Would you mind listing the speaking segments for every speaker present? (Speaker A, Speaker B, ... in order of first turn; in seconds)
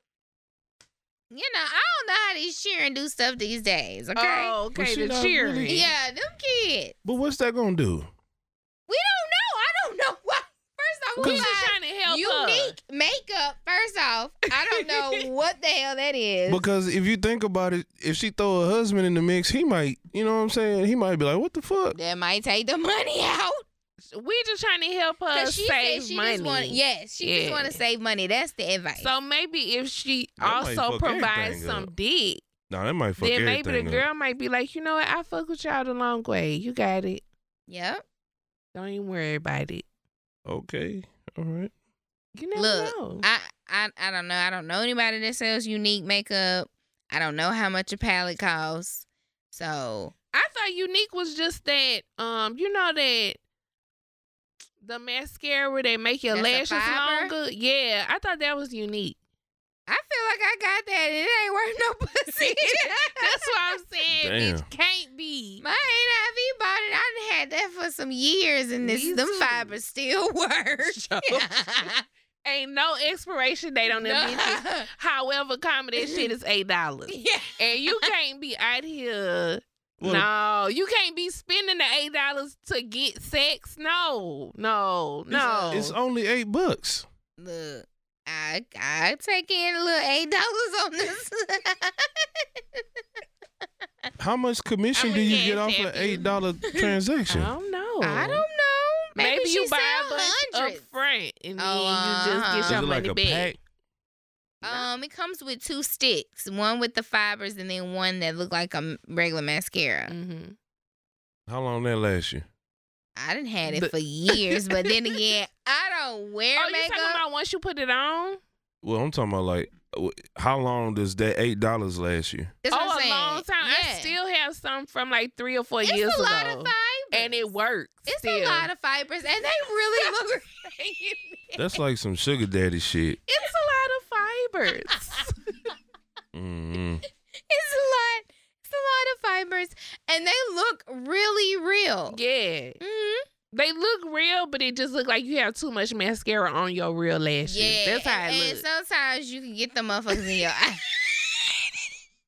Speaker A: 1.3-4.6, 5.7-7.0, 8.9-16.6, 21.9-23.6, 25.3-29.1, 37.7-38.0, 42.5-50.1, 56.3-57.3, 59.9-63.5, 65.6-72.0, 73.9-74.9, 76.0-76.3, 77.1-78.1, 85.3-85.9, 87.4-92.8, 96.7-96.9, 98.0-100.9, 101.6-102.8, 104.6-110.1, 113.2-117.2, 122.6-124.1, 125.8-127.5, 128.1-131.6, 137.4-142.2, 142.8-143.2, 147.4-151.5
Speaker B: 4.2-5.9, 11.2-12.8, 14.7-15.2, 24.1-27.8, 29.0-32.4, 33.2-37.2, 38.7-39.8, 42.3-43.2, 50.3-53.4, 54.8-59.2, 62.4-65.6, 68.8-69.8, 71.0-71.4, 72.4-86.0, 94.9-96.3, 97.3-98.4, 99.1-103.6, 110.1-110.5, 113.7-114.9, 116.6-118.4, 122.7-128.7, 133.3-135.3, 142.1-142.8, 143.5-148.6
Speaker C: 4.7-5.9, 7.0-8.1, 11.2-11.5, 16.5-21.9, 30.4-31.9, 32.7-34.0, 40.5-41.7, 64.2-64.7, 80.0-80.3, 85.3-87.0, 94.2-97.5, 102.7-103.6, 111.5-112.4, 118.8-122.6, 131.6-133.2, 136.3-137.0